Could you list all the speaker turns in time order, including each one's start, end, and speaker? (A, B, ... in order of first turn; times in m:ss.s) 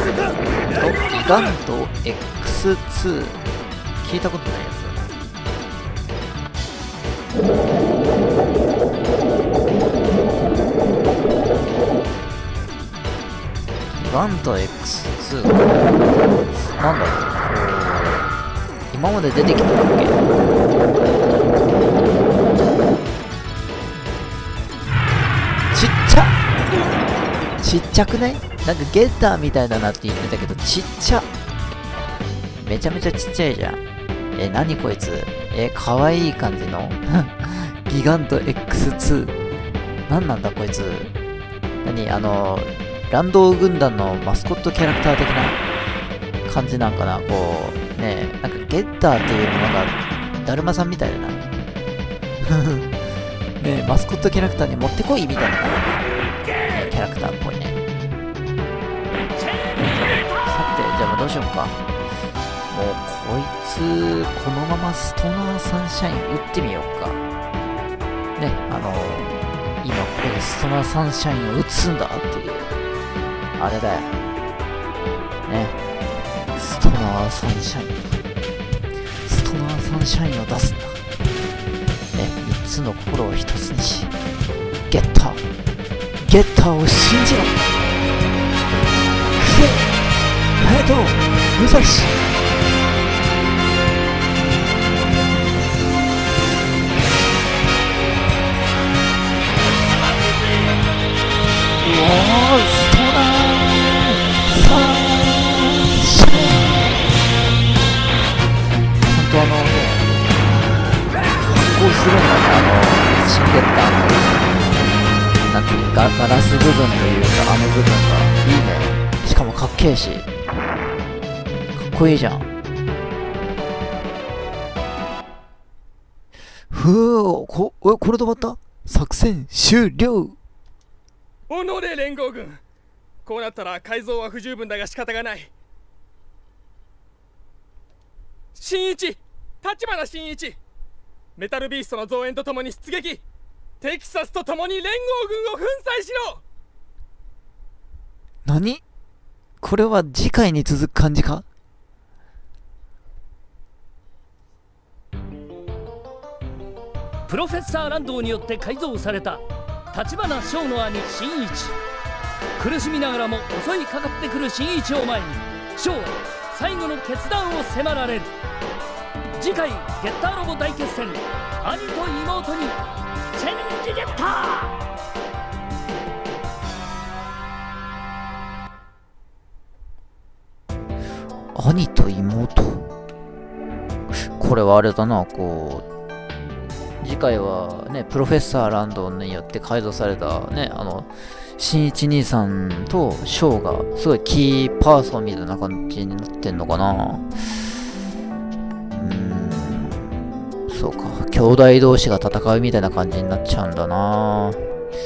0:00.7-0:03.4 A
0:04.0-0:05.2 A
0:13.9-0:15.7 A
0:16.8-0:18.3 A
0:18.9-0:20.2 A
0:25.7-0:26.4 A
0:27.6-0:31.3 A
0:32.6-0:33.8 A
0:34.4-0:39.4 A
0:40.1-0:41.1 A
0:41.8-0:45.6 A
0:46.5-0:51.4 A
0:52.4-0:56.1 A
0:56.7-0:57.8 A
0:59.4-1:00.5 B
1:00.5-1:01.8 A
1:02.7-1:07.2 A
1:08.4-1:12.7 A
1:13.6-1:14.1 A
1:15.5-1:15.8 A
1:16.6-1:18.2 A
1:19.3-1:21.0 A
1:22.1-1:24.1 A
1:24.9-1:25.4 A
1:26.2-1:27.6 A
1:29.4-1:29.9 A
1:30.6-1:32.3 A
1:39.9-1:40.8 B
1:41.8-1:47.0 A
1:49.0-1:50.1 A
1:51.4-1:54.5 A
1:55.3-2:00.3 A
2:01.8-2:02.5 A
2:06.7-2:10.4 A
2:11.5-2:12.6 C
2:13.2-2:15.5 C
2:18.6-2:20.6 C
2:21.4-2:23.2 C
2:23.8-2:26.4 C
2:28.5-2:28.8 A
2:29.6-2:31.4 A
2:37.3-2:41.8 B
2:42.6-2:48.3 B
2:49.4-2:52.8 B
2:53.4-2:54.8 B
3:01.5-3:02.9 A
3:04.1-3:05.8 A
3:07.0-3:17.8 A
3:18.9-3:24.7 A